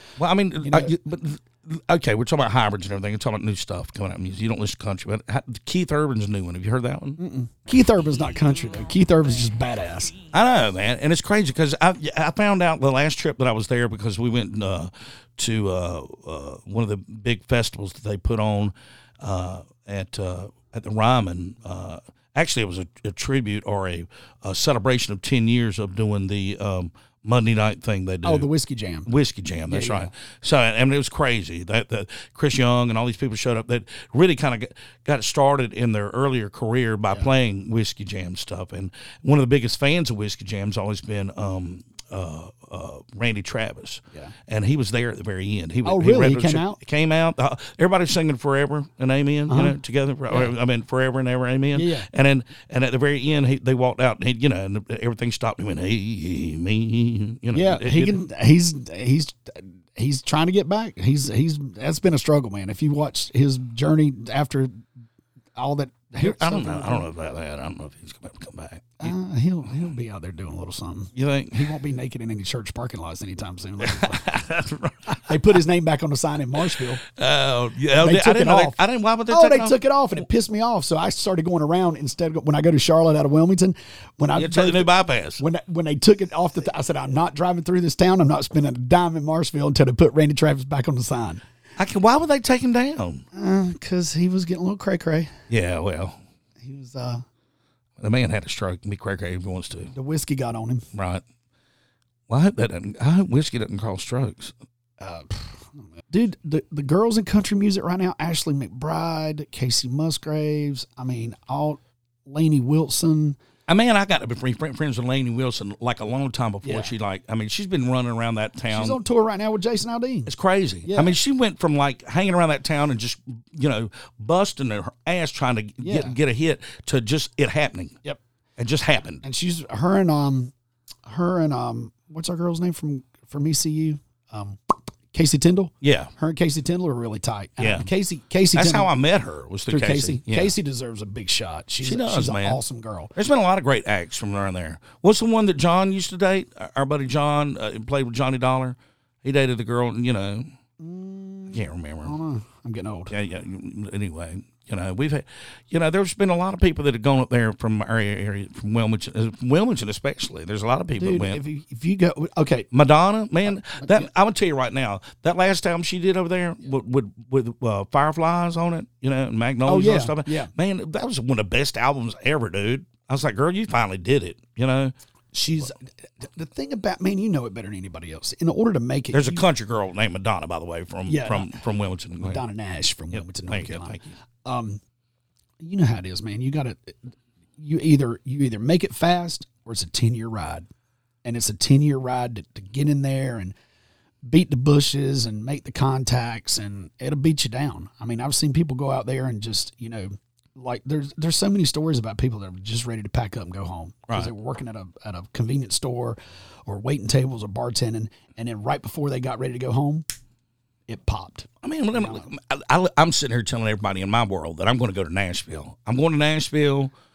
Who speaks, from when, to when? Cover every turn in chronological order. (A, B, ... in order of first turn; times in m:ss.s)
0:00.2-0:07.2 A
0:00.6-0:00.9 B
0:07.2-0:10.2 B
0:10.3-0:28.5 A
0:28.2-0:29.1 B
0:29.0-0:58.2 A
0:29.7-0:30.1 B
0:45.8-0:46.8 B
0:49.5-0:49.8 B
0:50.3-0:50.5 B
0:51.7-0:52.1 B
0:57.5-1:04.8 B
1:05.5-1:07.1 B
1:06.2-1:09.1 A
1:09.0-1:14.3 B
1:11.1-1:11.7 A
1:13.8-1:15.3 A
1:15.2-1:17.0 B
1:17.1-1:19.7 A
1:18.0-1:31.4 B
1:24.3-1:25.4 A
1:31.8-1:33.2 A
1:33.3-1:35.3 B
1:35.5-1:36.2 A
1:36.6-1:37.2 B
1:38.0-1:39.9 A
1:39.9-1:40.8 B
1:40.9-1:41.2 A
1:42.3-1:44.5 A
1:45.0-1:53.4 B
1:53.7-1:59.0 A
1:56.6-1:56.9 B
1:58.7-2:00.3 B
2:00.3-2:08.0 A
2:00.8-2:01.2 B
2:05.8-2:06.2 B
2:08.6-2:09.2 A
2:09.2-2:10.5 B
2:11.0-2:18.9 B
2:15.8-2:16.1 A
2:17.6-2:17.9 A
2:18.5-2:20.5 A
2:19.7-2:23.1 B
2:21.8-2:22.6 A
2:23.2-2:30.5 A
2:30.8-2:33.1 B
2:31.5-2:32.1 A
2:33.1-2:41.4 A
2:41.0-2:42.7 B
2:42.7-2:54.9 A
2:43.4-2:44.1 B
2:49.6-2:50.5 B
2:55.3-2:59.4 B
2:59.1-3:02.4 A
3:01.1-3:01.5 B
3:02.2-3:04.8 B
3:03.1-3:04.2 A
3:05.6-3:10.7 B
3:11.2-3:13.5 B
3:14.2-3:30.0 B
3:30.9-3:32.3 B
3:31.6-3:36.9 A